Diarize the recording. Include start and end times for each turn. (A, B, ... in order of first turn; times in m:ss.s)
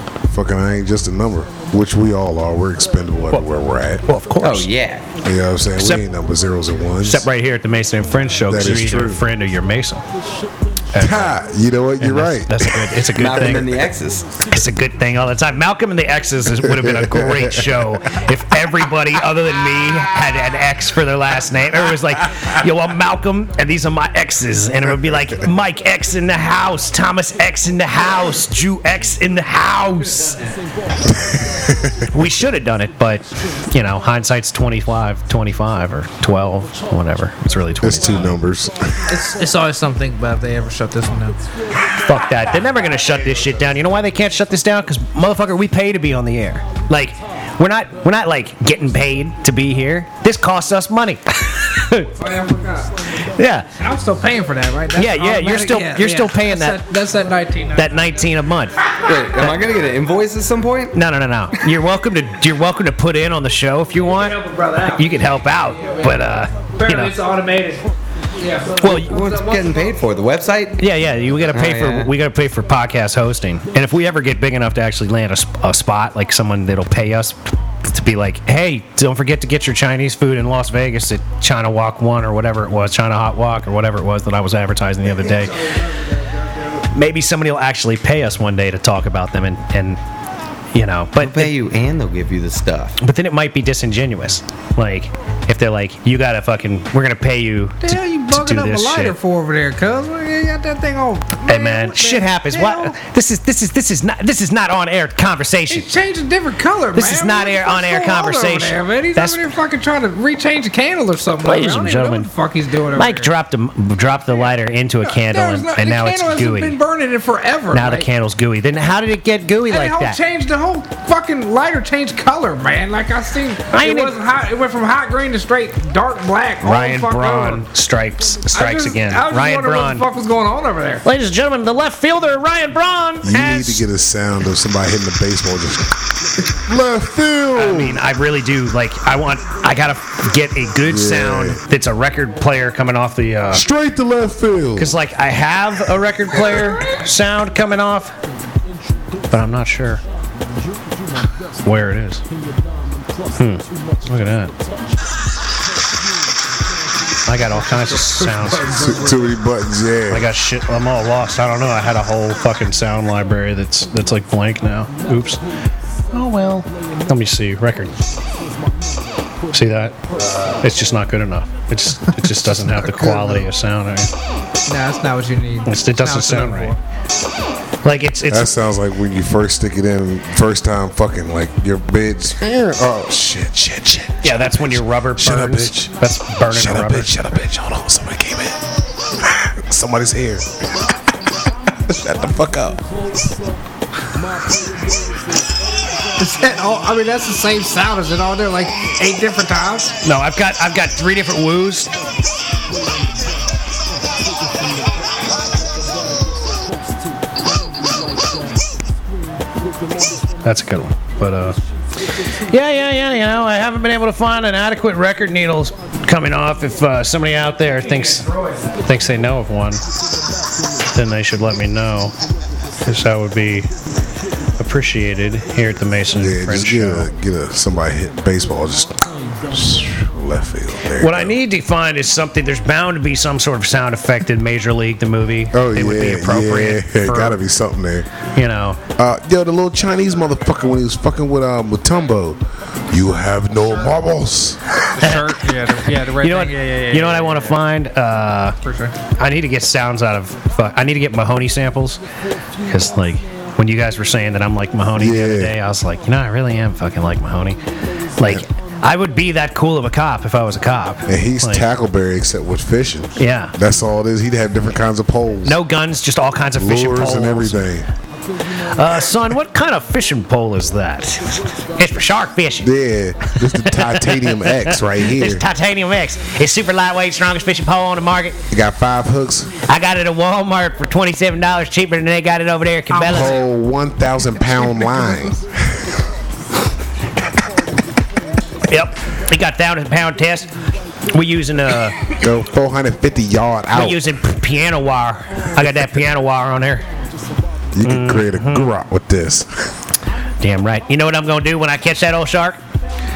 0:00.3-0:04.0 A
0:04.1-0:04.7 B
0:04.4-0:05.1 C
0:05.2-0:07.3 A
0:05.8-0:06.0 B
0:07.0-0:10.0 B
0:08.5-0:09.3 A
0:10.9-0:11.4 B
0:11.0-0:13.6 A
0:12.0-0:13.8 B
0:13.2-0:14.3 C
0:14.5-0:30.4 B
0:16.6-0:17.8 A
0:31.1-0:32.0 A
0:32.1-0:38.4 B
0:37.8-0:39.1 A
0:39.1-0:41.4 D
0:41.9-0:52.1 B
0:52.2-0:53.0 D
0:53.2-0:53.7 B
0:53.8-0:58.2 D
0:55.0-0:56.8 B
0:57.8-0:59.7 B
0:59.0-1:01.0 C
1:00.9-1:04.4 B
1:04.0-1:10.0 D
1:04.9-1:07.1 B
1:08.8-1:09.1 B
1:08.8-1:10.8 C
1:10.8-1:25.6 B
1:11.4-1:12.1 C
1:25.2-1:26.8 D
1:26.9-1:30.0 B
1:30.7-1:31.5 B
1:31.2-1:33.0 C
1:33.0-1:39.2 B
1:37.8-1:43.0 D
1:41.5-1:45.9 B
1:45.7-1:53.3 D
1:47.0-1:49.5 B
1:51.4-1:52.3 B
1:52.9-1:56.8 B
1:55.0-1:58.1 D
1:57.7-2:00.2 B
1:59.7-2:07.6 D
2:03.7-2:04.2 B
2:06.6-2:10.1 B
2:08.5-2:11.0 D
2:11.0-2:13.9 B
2:13.2-2:15.9 A
2:16.6-2:18.0 A
2:17.5-2:23.6 B
2:20.9-2:21.6 A
2:23.5-2:24.9 A
2:24.8-2:28.1 B
2:29.3-2:30.0 B
2:31.6-2:32.2 B
2:33.3-2:34.5 B
2:37.3-2:38.9 B
2:37.9-2:39.3 D
2:38.7-2:40.3 A
2:40.1-2:45.4 B
2:46.1-2:48.0 B
2:49.5-2:50.0 B
2:50.6-2:54.1 B
2:52.4-2:53.5 D
2:54.7-2:56.8 D
2:55.7-2:56.8 B
2:57.8-2:58.5 B
2:58.3-3:06.0 A
3:04.2-3:07.1 B
3:06.5-3:08.6 A
3:09.2-3:10.6 A
3:11.8-3:12.8 A
3:16.2-3:19.9 D
3:20.0-3:21.9 B
3:30.4-3:31.6 B
3:32.4-3:39.8 B
3:38.1-3:38.7 D
3:40.8-3:42.1 B
3:42.8-3:43.7 B
3:44.6-3:47.1 B
3:46.2-3:51.4 A
3:51.0-3:57.4 B
3:55.5-3:58.1 A
3:58.4-3:58.8 B
3:59.0-4:04.8 A
4:05.0-4:07.6 D
4:05.0-4:05.4 B
4:06.1-4:08.6 B
4:08.6-4:09.0 D
4:09.2-4:12.0 B
4:12.6-4:17.6 B
4:15.0-4:15.6 A
4:18.2-4:21.7 B
4:21.1-4:25.6 A
4:23.2-4:23.6 B
4:25.4-4:27.7 B
4:26.6-4:27.9 A
4:28.6-4:32.7 B
4:32.6-4:35.5 A
4:33.3-4:38.4 B
4:38.5-4:39.6 A
4:39.6-4:43.4 B
4:42.9-4:43.4 D
4:43.0-4:45.9 A
4:44.4-4:45.3 D
4:48.7-4:50.5 B
4:51.1-4:52.0 B
4:52.2-4:54.1 A
4:53.7-4:56.8 B
4:57.8-4:59.7 A
4:57.8-4:58.7 B
5:00.4-5:02.6 B